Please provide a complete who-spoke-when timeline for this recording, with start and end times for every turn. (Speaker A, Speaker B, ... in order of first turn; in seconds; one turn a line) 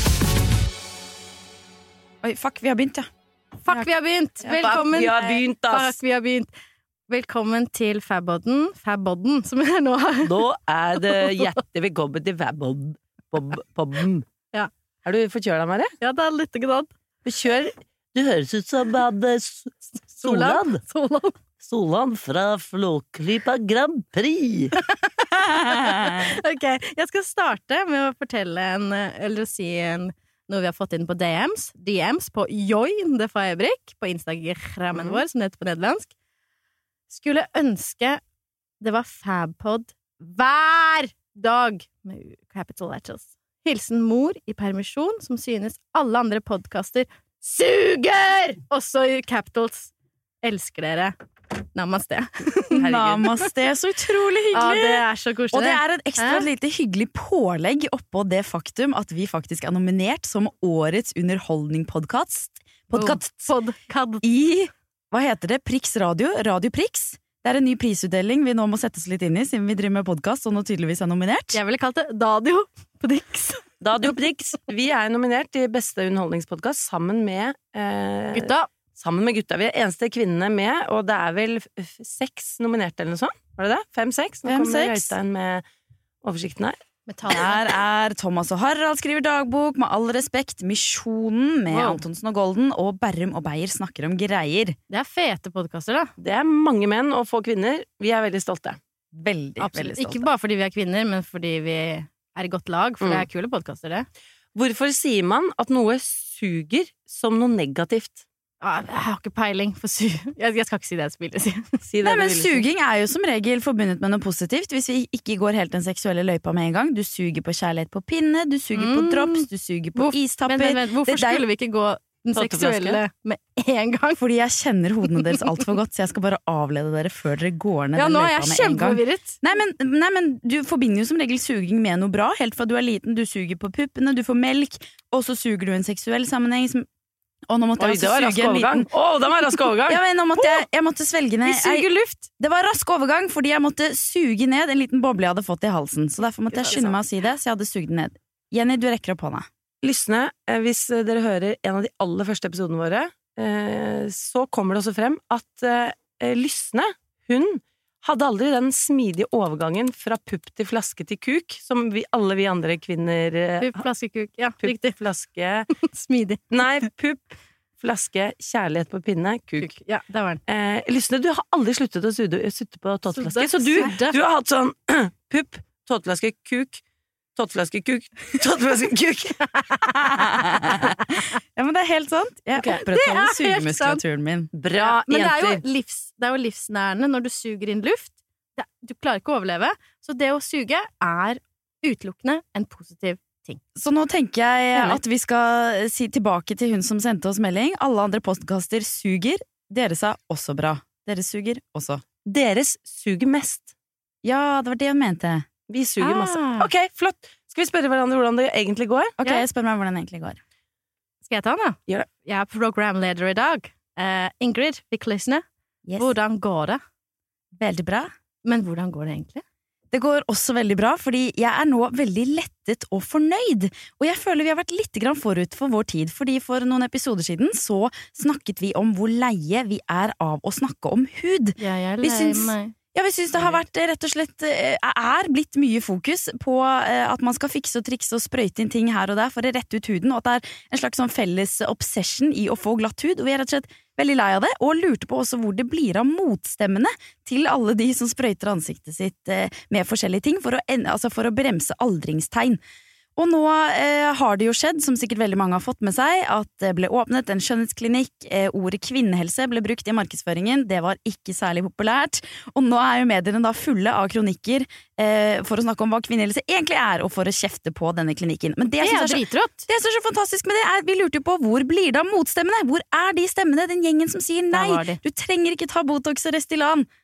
Speaker A: 2.2-3.1
Speaker B: 3.6-6.5
Speaker A: 4.4-5.3
Speaker C: 4.4-6.0
Speaker B: 7.1-10.4
Speaker C: 10.2-14.3
Speaker B: 11.0-11.5
Speaker C: 15.0-15.9
Speaker B: 16.0-16.9
Speaker C: 17.2-20.8
Speaker B: 20.2-21.4
Speaker C: 21.6-24.7
Speaker B: 24.8-36.1
Speaker A: 25.7-26.2
Speaker C: 34.9-35.2
Speaker B: 37.1-38.2
Speaker B: 38.8-47.1
Speaker C: 47.4-48.6
Speaker B: 48.7-49.9
Speaker B: 50.4-51.1
Speaker B: 51.7-52.8
Speaker C: 52.8-53.3
Speaker A: 52.8-63.5
Speaker B: 54.5-56.5
Speaker B: 62.9-64.2
Speaker A: 64.2-71.6
Speaker B: 71.5-73.7
Speaker C: 73.8-85.6
Speaker B: 78.3-78.7
Speaker A: 84.5-85.1
Speaker C: 86.2-86.8
Speaker B: 87.1-87.5
Speaker A: 87.3-94.8
Speaker B: 91.7-92.0
Speaker B: 94.9-96.1
Speaker C: 96.2-98.8
Speaker A: 99.1-100.2
Speaker B: 99.6-104.1
Speaker C: 104.5-108.2
Speaker B: 108.6-111.8
Speaker C: 111.8-112.6
Speaker A: 112.0-121.4
Speaker B: 118.7-124.2
Speaker C: 122.3-123.0
Speaker A: 124.2-136.9
Speaker B: 125.1-125.4
Speaker B: 127.9-129.4
Speaker A: 137.5-138.9
Speaker C: 137.8-140.0
Speaker A: 139.9-141.9
Speaker B: 141.4-142.2
Speaker A: 142.4-149.5
Speaker B: 146.5-146.9
Speaker C: 149.8-163.8
Speaker B: 163.6-164.9
Speaker C: 164.6-165.7
Speaker B: 165.7-166.4
Speaker C: 166.5-169.7
Speaker B: 169.6-170.4
Speaker C: 170.4-176.8
Speaker B: 173.1-174.2
Speaker C: 177.3-179.4
Speaker A: 179.9-184.5
Speaker B: 182.7-184.0
Speaker C: 184.5-185.6
Speaker B: 184.8-193.6
Speaker A: 193.8-202.0
Speaker C: 202.2-203.7
Speaker A: 204.2-205.5
Speaker C: 205.7-209.1
Speaker B: 206.0-206.7
Speaker A: 209.2-210.4
Speaker B: 211.2-215.4
Speaker A: 215.8-216.1
Speaker B: 216.0-216.8
Speaker A: 217.5-218.1
Speaker B: 218.4-219.4
Speaker A: 219.9-252.6
Speaker B: 231.6-232.7
Speaker A: 253.2-276.9
Speaker B: 268.8-269.6
Speaker B: 274.5-275.0